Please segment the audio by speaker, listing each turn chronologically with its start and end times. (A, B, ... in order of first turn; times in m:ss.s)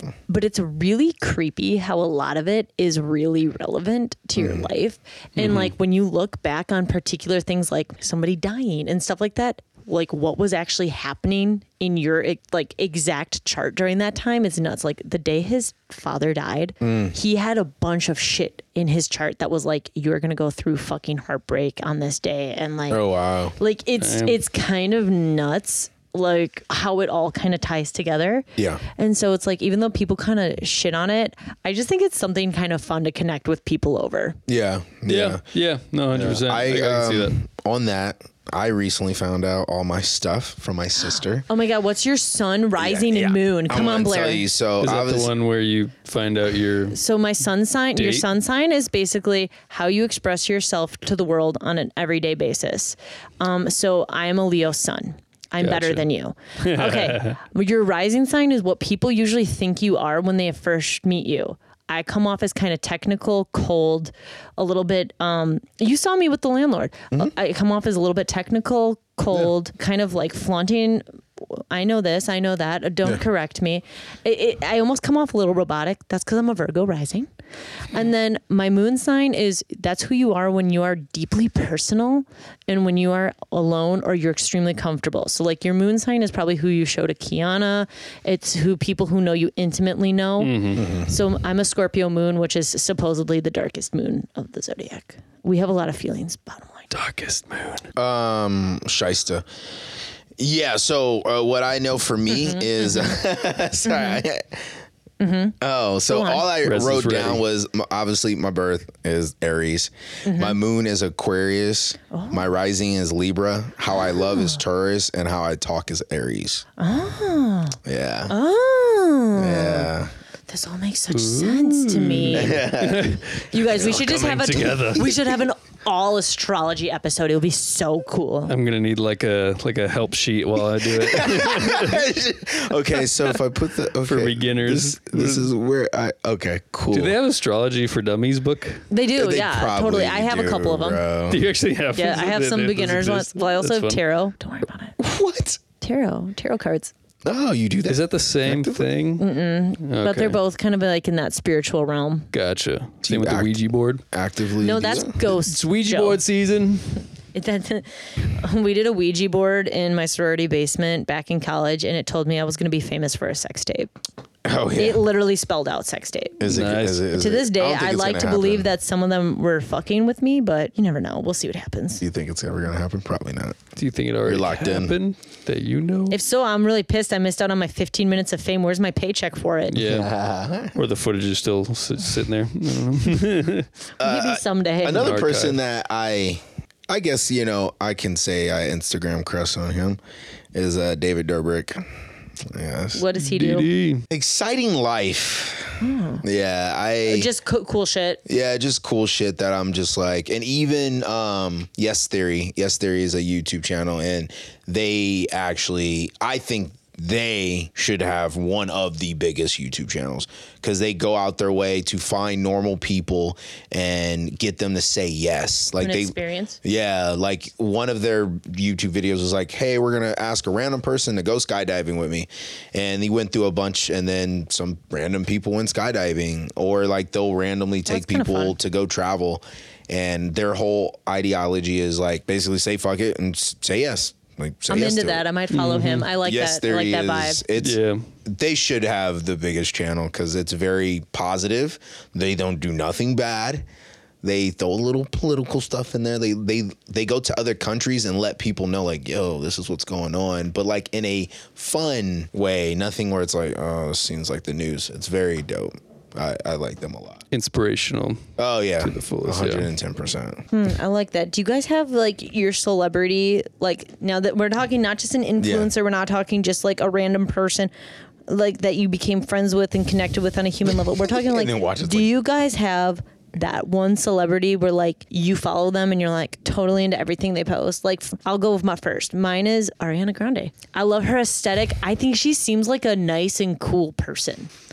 0:00.3-0:34.4 A
0:04.4-0:04.7 B
0:05.4-0:05.7 C
0:16.8-0:17.1 B
0:22.9-0:23.6 B
0:24.0-0:24.4 C
0:28.6-0:28.8 B
0:34.5-0:35.4 B
0:35.1-0:37.4 C
0:36.1-0:41.5 B
0:41.5-0:44.5 A
0:42.8-0:45.3 B
0:44.8-0:47.0 C
0:46.9-1:17.3 A
0:48.0-0:48.2 C
0:55.6-0:56.0 C
0:56.6-0:57.4 C
1:17.9-1:36.9 A
1:30.4-1:30.8 C
1:30.7-1:31.1 B
1:36.9-1:37.9 C
1:38.0-1:39.4 B
1:40.4-1:44.8 B
1:42.3-1:42.7 A
1:43.8-1:44.2 A
1:45.2-1:45.6 A
1:45.6-1:56.6 B
1:46.1-1:46.4 A
1:46.6-1:47.4 C
1:50.2-1:50.6 A
1:52.1-1:52.4 A
1:56.8-1:57.8 A
1:57.8-1:58.3 B
1:58.3-1:59.9 A
1:59.4-2:00.1 B
2:00.5-2:02.7 A
2:01.1-2:05.1 C
2:02.3-2:03.2 B
2:03.5-2:08.5 A
2:08.5-2:12.0 C
2:10.9-2:17.2 B
2:14.0-2:15.5 C
2:16.9-2:18.8 C
2:18.9-2:21.0 A
2:19.2-2:21.4 B
2:21.3-2:24.0 C
2:21.9-2:25.0 A
2:25.0-2:25.6 B
2:25.8-2:26.9 A
2:27.2-2:28.9 B
2:27.8-2:29.2 C
2:29.2-2:32.3 A
2:29.8-2:30.4 C
2:32.3-2:34.0 C
2:33.0-2:33.6 B
2:34.1-2:35.2 B
2:34.6-2:36.2 A
2:35.4-2:37.0 C
2:37.3-2:43.9 A
2:44.4-2:45.1 B
2:44.8-2:46.5 A
2:46.4-2:48.7 B
2:46.5-2:47.0 C
2:47.1-2:52.0 A
2:52.0-2:53.6 B
2:53.8-2:56.2 C
2:54.2-2:55.0 B
2:56.1-2:59.8 A
2:59.7-3:00.1 C
2:59.8-3:00.8 B
3:00.7-3:03.7 C
3:04.0-3:10.0 B
3:04.0-3:05.2 A
3:04.9-3:05.6 C
3:10.5-3:11.8 B
3:12.4-3:13.0 B
3:12.9-3:13.7 A
3:13.2-3:14.0 C
3:14.1-3:17.3 B
3:15.8-3:16.2 A
3:17.0-3:18.2 A
3:18.2-3:55.2 B
3:35.8-3:36.6 A
3:47.9-3:48.6 A
3:54.7-3:57.4 A
3:55.5-3:56.1 C
3:56.2-4:03.6 B
3:57.6-3:58.0 C
4:04.2-4:17.2 B
4:17.3-4:18.2 C
4:18.4-4:20.4 B
4:18.8-4:19.7 C
4:20.5-4:27.7 A
4:25.4-4:25.7 B
4:28.3-4:44.5 A
4:30.9-4:32.1 B